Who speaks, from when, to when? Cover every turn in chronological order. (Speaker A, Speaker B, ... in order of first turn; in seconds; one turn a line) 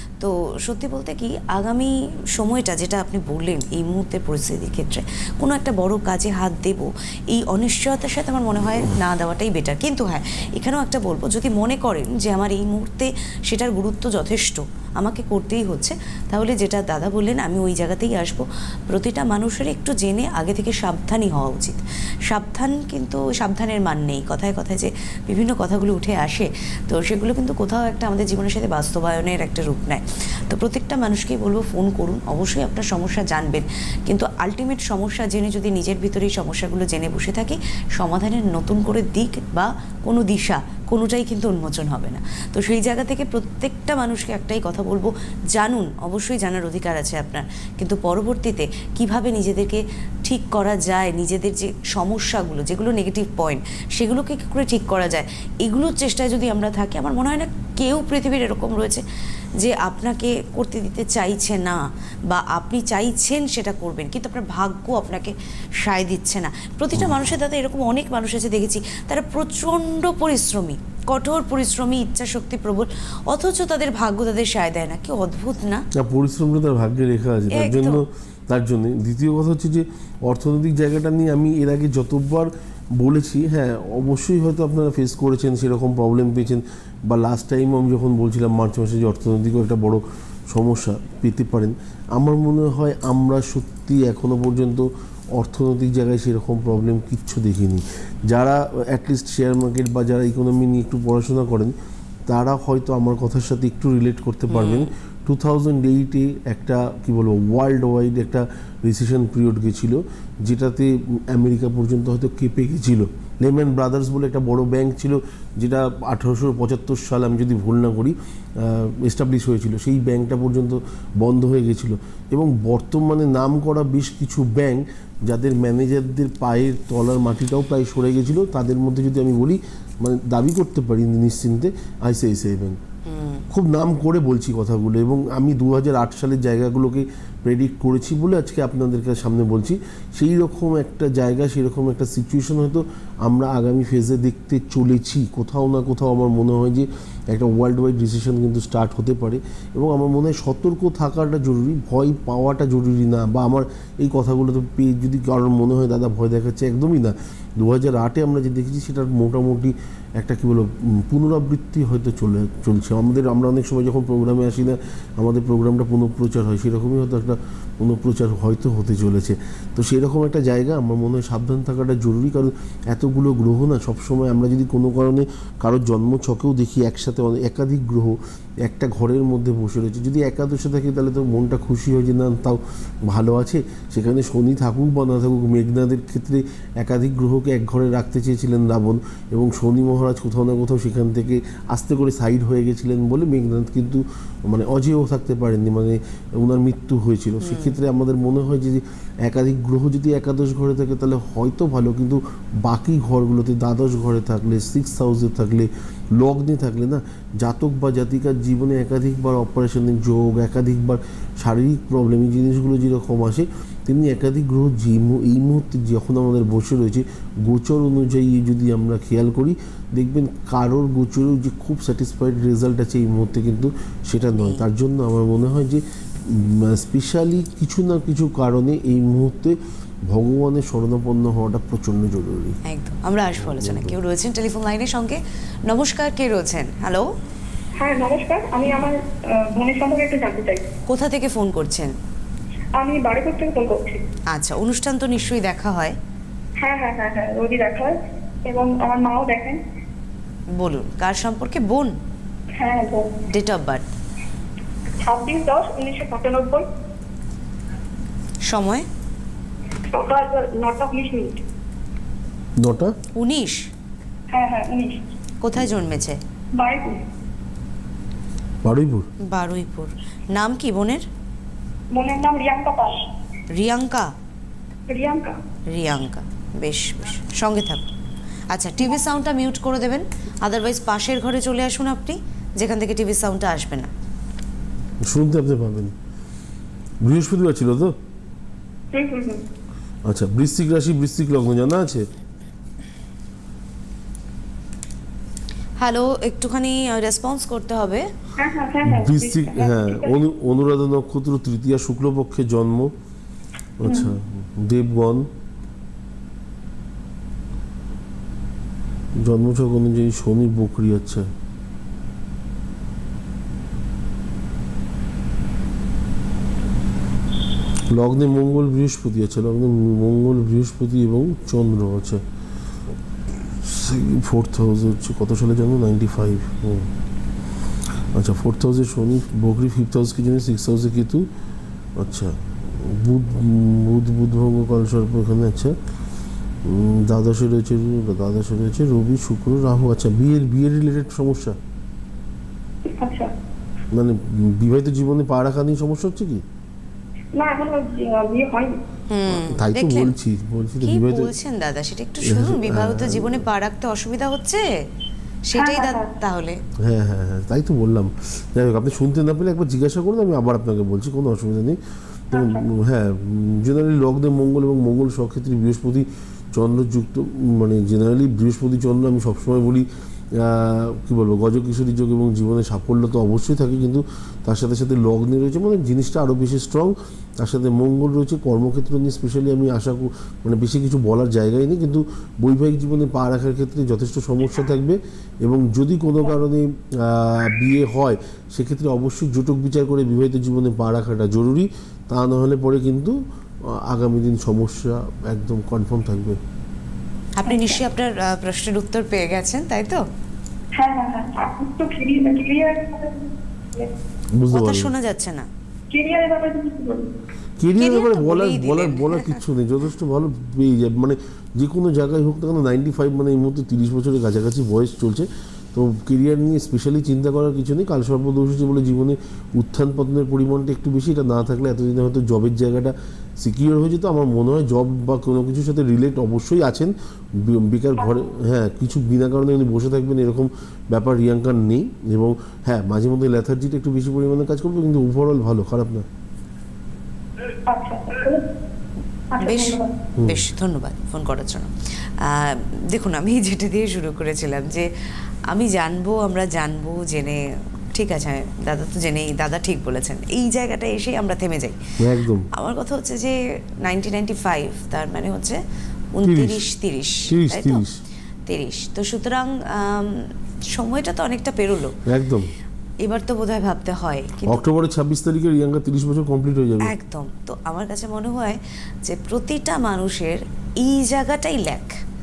Speaker A: 0.2-59.0
Speaker A: 59.6-75.8
Speaker B: 66.9-67.3
Speaker B: 76.0-101.7
Speaker A: 77.5-78.0
Speaker B: 102.3-132.8
Speaker A: 104.5-104.9
Speaker A: 133.1-133.4
Speaker B: 133.5-229.6
Speaker A: 197.4-197.8
Speaker A: 224.3-224.6
Speaker B: 230.1-232.6
Speaker A: 232.7-237.1
Speaker B: 233.4-233.9
Speaker C: 237.8-240.7
Speaker A: 240.9-241.9
Speaker C: 242.8-244.0
Speaker A: 244.3-246.0
Speaker C: 246.6-249.6
Speaker A: 250.6-251.9
Speaker C: 252.6-253.2
Speaker A: 253.3-253.8
Speaker C: 255.0-256.6
Speaker A: 258.5-258.9
Speaker C: 259.9-261.4
Speaker B: 262.6-262.9
Speaker A: 263.2-263.7
Speaker C: 264.3-265.0
Speaker A: 265.4-266.2
Speaker B: 265.6-265.9
Speaker C: 266.6-267.0
Speaker B: 268.6-269.1
Speaker A: 269.3-271.1
Speaker C: 271.9-273.0
Speaker A: 273.6-274.1
Speaker C: 274.9-275.4
Speaker A: 275.7-277.9
Speaker A: 278.5-283.9
Speaker B: 285.1-285.9
Speaker B: 287.0-287.9
Speaker C: 288.9-289.4
Speaker B: 290.1-292.1
Speaker A: 295.8-298.1
Speaker C: 298.4-300.2
Speaker B: 298.9-302.9
Speaker B: 303.8-305.3
Speaker C: 303.8-304.1
Speaker B: 309.2-311.3
Speaker B: 317.9-322.2
Speaker B: 323.6-326.9
Speaker B: 328.1-331.3
Speaker B: 332.0-335.8
Speaker B: 336.6-341.6
Speaker C: 342.9-343.3
Speaker B: 343.9-346.4
Speaker C: 347.4-348.8
Speaker A: 349.1-350.1
Speaker B: 349.3-351.3
Speaker A: 350.8-354.7
Speaker B: 352.2-353.5
Speaker A: 355.5-356.6
Speaker C: 355.6-356.1
Speaker B: 356.8-361.8
Speaker B: 362.3-393.1
Speaker C: 362.3-362.7
Speaker B: 393.7-396.4
Speaker A: 397.4-400.0
Speaker C: 397.4-397.8
Speaker C: 400.8-403.9
Speaker B: 404.4-404.9
Speaker A: 404.5-405.5
Speaker C: 405.9-407.1
Speaker B: 407.6-436.1
Speaker A: 407.8-409.4
Speaker C: 437.7-438.4
Speaker C: 439.3-439.9
Speaker A: 439.4-444.9
Speaker B: 440.2-440.5
Speaker A: 445.5-447.4
Speaker A: 447.9-451.8
Speaker B: 452.0-452.5
Speaker A: 452.5-455.6
Speaker A: 456.1-457.8
Speaker B: 456.2-456.6
Speaker B: 457.3-458.0
Speaker A: 458.5-462.0
Speaker B: 462.1-462.5
Speaker A: 463.0-464.6
Speaker B: 464.5-466.9
Speaker A: 466.8-472.0